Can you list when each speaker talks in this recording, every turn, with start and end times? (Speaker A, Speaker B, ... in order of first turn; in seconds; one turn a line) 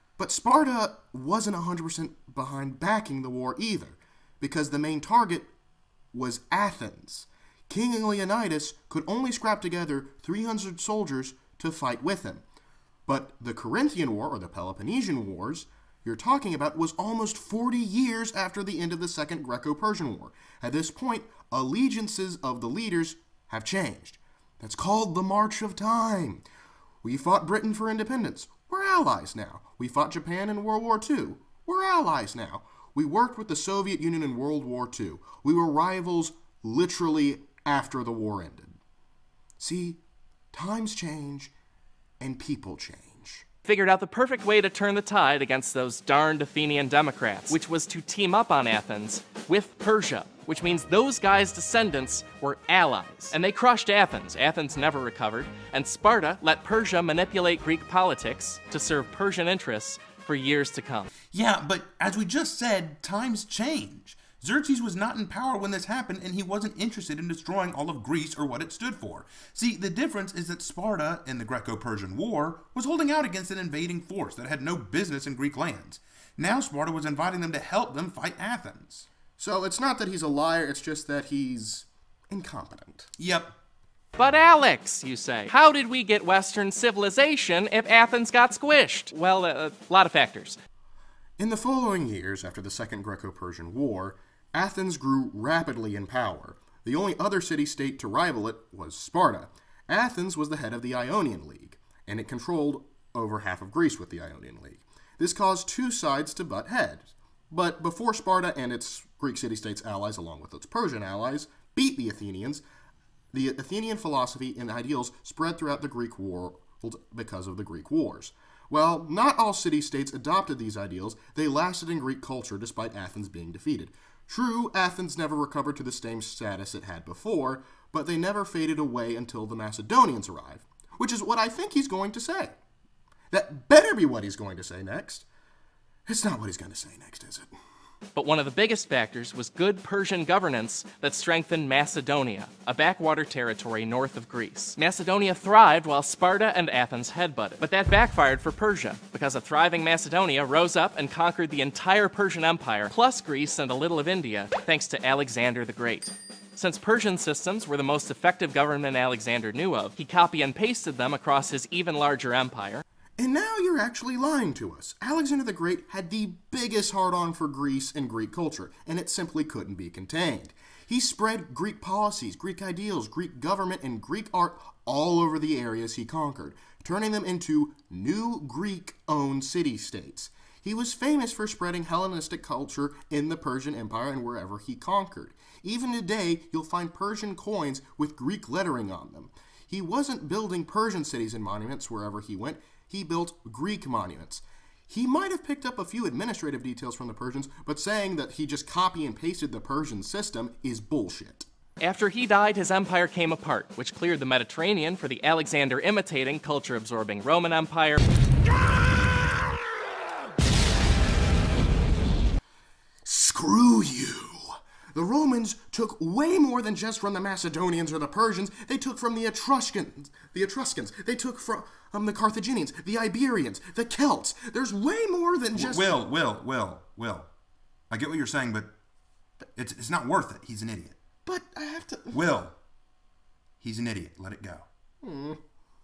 Speaker A: 0.2-5.5
Speaker A: 6.1-12.4
Speaker A: 13.1-26.4
Speaker A: 27.0-38.8
Speaker A: 39.6-40.0
Speaker A: 40.5-41.5
Speaker A: 42.2-43.4
Speaker B: 43.6-61.1
Speaker C: 61.3-79.1
Speaker A: 79.4-83.1
Speaker C: 83.2-83.5
Speaker B: 84.2-90.6
Speaker A: 91.4-112.6
Speaker A: 113.3-132.5
Speaker A: 133.3-135.3
Speaker A: 136.1-137.5
Speaker B: 138.1-162.8
Speaker A: 163.2-201.5
Speaker B: 201.8-208.0
Speaker A: 213.0-226.0
Speaker C: 225.5-227.3
Speaker C: 227.9-228.7
Speaker C: 229.6-230.9
Speaker A: 231.2-232.2
Speaker C: 232.1-232.6
Speaker C: 233.6-234.7
Speaker A: 235.0-235.4